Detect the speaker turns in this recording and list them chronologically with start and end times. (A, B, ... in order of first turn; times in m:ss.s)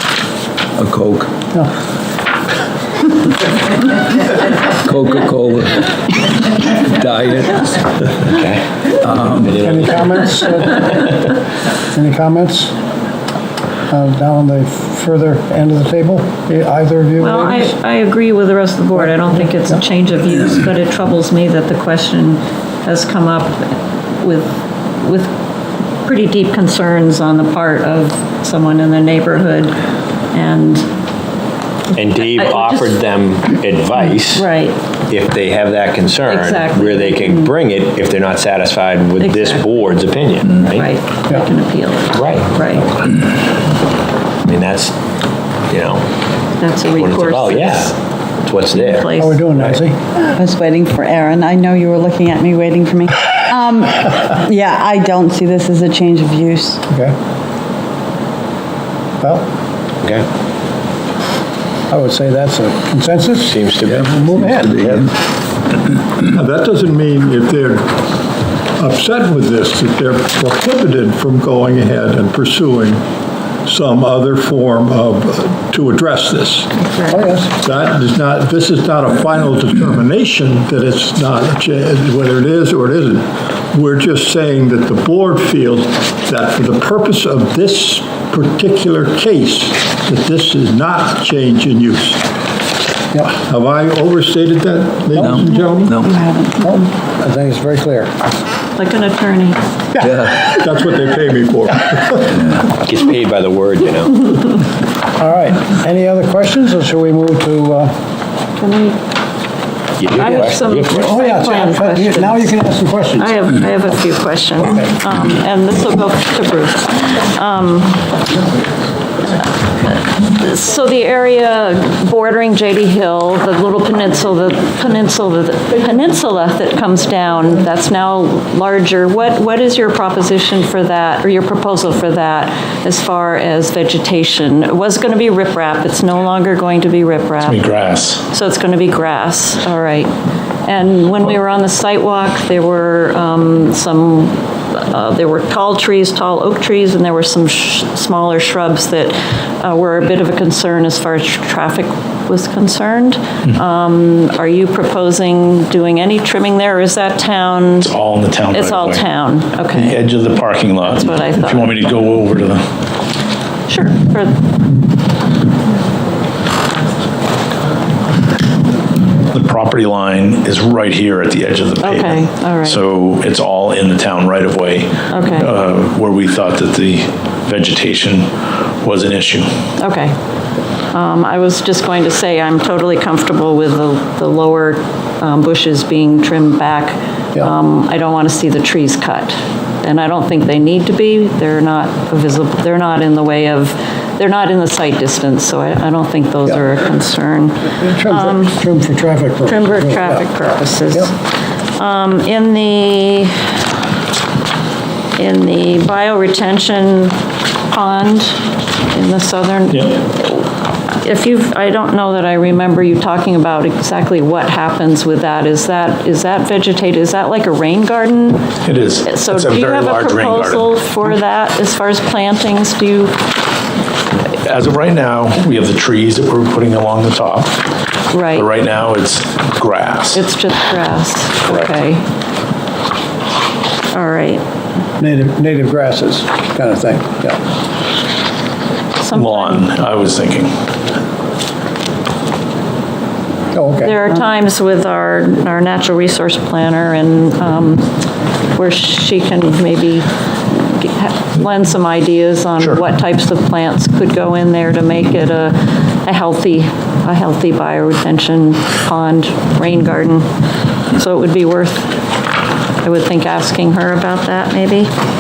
0:00.8-0:01.3 A
0:04.8-0:07.8 A
0:08.2-0:08.6 B
0:09.0-0:09.8 A
0:09.4-0:10.0 B
0:09.6-0:11.2 C
0:11.9-0:12.7 C
0:13.9-0:17.7 C
0:17.2-0:25.3 D
0:26.0-0:29.8 D
0:30.3-0:30.9 D
0:31.9-0:34.5 B
0:32.2-0:33.0 D
0:34.2-0:34.8 D
0:35.1-0:40.9 B
0:36.3-0:37.5 D
0:39.2-0:42.9 D
0:42.1-0:42.5 B
0:44.4-0:45.0 B
0:45.7-0:46.0 B
0:46.6-0:47.9 D
0:46.9-0:49.8 B
0:48.7-0:49.4 D
0:49.2-0:50.1 C
0:50.3-0:56.8 E
0:56.9-0:57.1 C
0:59.2-0:59.5 C
1:01.9-1:05.0 C
1:03.4-1:04.1 B
1:03.8-1:05.1 A
1:06.3-1:08.0 F
1:08.8-1:13.0 F
1:13.7-1:16.7 F
1:16.8-1:17.3 D
1:17.1-1:17.5 C
1:17.6-1:32.2 F
1:33.4-1:36.0 F
1:35.2-1:36.2 A
1:35.6-1:36.5 E
1:36.6-1:38.1 C
1:38.8-1:39.6 D
1:40.0-1:40.4 C
1:40.0-1:40.4 A
1:40.5-1:42.4 F
1:42.8-1:44.4 B
1:45.2-1:47.9 C
1:48.6-1:49.0 D
1:50.0-1:51.2 B
1:50.1-1:52.6 D
1:50.9-1:53.4 C
1:53.2-1:58.0 D
1:59.9-2:17.7 D
2:17.4-2:18.2 G
2:18.3-2:20.1 D
2:20.7-2:37.9 D
2:37.8-2:39.0 G
2:38.5-2:40.0 D
2:39.7-2:42.6 G
2:40.8-2:41.8 D
2:43.7-2:44.4 D
2:49.3-2:58.3 G
2:51.8-2:52.8 D
2:55.1-2:55.5 D
2:58.8-2:59.5 G
2:59.8-3:00.2 D
3:00.9-3:18.6 D
3:17.8-3:20.2 C
3:19.5-3:21.1 D
3:21.8-3:23.3 D
3:25.2-3:27.2 D
3:27.7-3:28.4 D
3:28.9-3:38.5 D
3:38.6-3:40.7 G
3:39.1-3:43.2 D
3:44.4-3:47.7 G
3:48.1-3:48.5 D
3:48.3-3:50.2 G
3:50.1-3:52.0 D
3:53.9-3:54.4 D
3:55.0-3:57.4 C
3:59.0-3:59.7 D
3:59.1-4:00.5 G
4:03.5-4:04.1 C
4:03.8-4:07.9 D
4:08.5-4:20.3 D
4:20.9-4:21.9 D
4:22.8-4:24.9 D